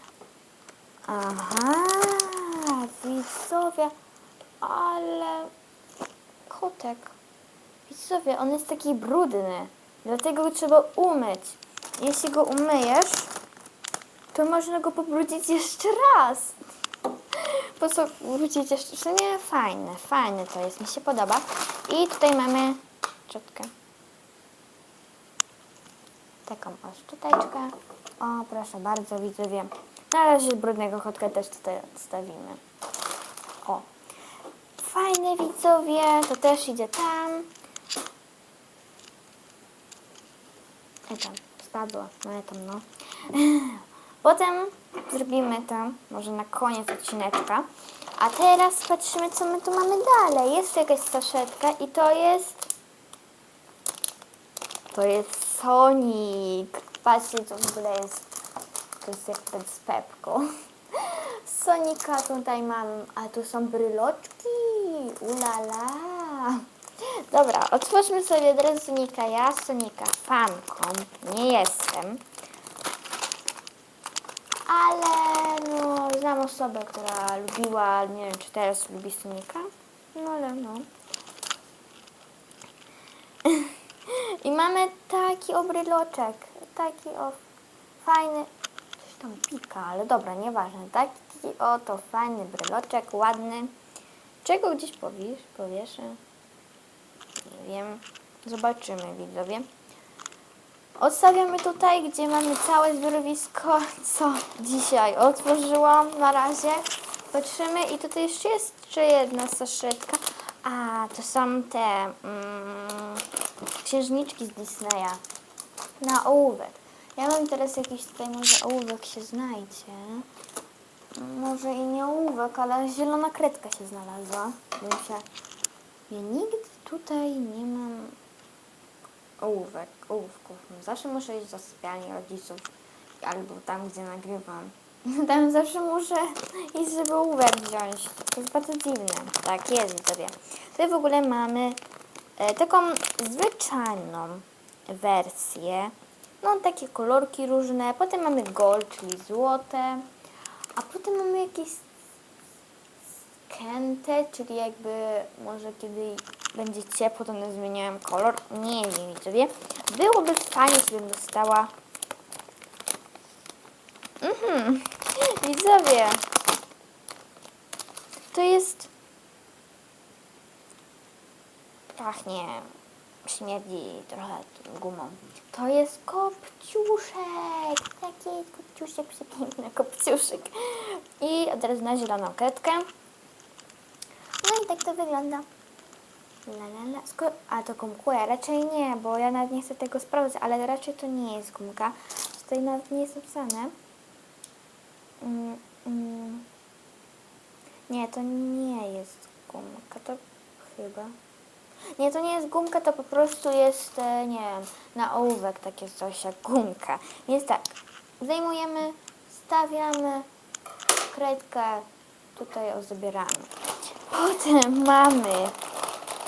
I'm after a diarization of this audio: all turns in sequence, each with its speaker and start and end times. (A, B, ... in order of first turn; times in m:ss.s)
0:01.0-0:03.9 A
0:04.6-0:05.5 A
0:06.5-0:07.2 A
0:07.9-0:13.3 A
0:14.3-0:16.6 A
0:17.3-0:23.7 A
0:26.4-0:32.6 A
0:34.8-0:37.5 A
0:41.1-0:52.7 A
0:54.9-0:58.3 A
0:59.0-1:12.2 A
1:14.6-1:20.9 A
1:23.4-1:27.4 A
1:28.0-1:33.7 A
1:34.4-1:36.2 A
1:37.4-1:39.7 A
1:41.0-1:53.2 A
1:53.8-1:55.2 A
1:56.0-2:00.3 A
2:01.1-2:05.2 A
2:06.1-2:08.2 A
2:09.4-2:21.8 A
2:22.4-2:30.1 A
2:30.7-2:31.9 A
2:33.5-2:41.7 A
2:44.2-2:46.2 A
2:48.3-2:48.9 A
2:51.9-2:52.7 A
2:53.2-3:02.9 A
3:04.4-3:05.5 A
3:06.4-3:13.7 A
3:15.2-3:16.5 A
3:17.9-3:21.1 A
3:22.0-3:30.3 A
3:31.1-3:33.5 A
3:34.0-3:35.6 A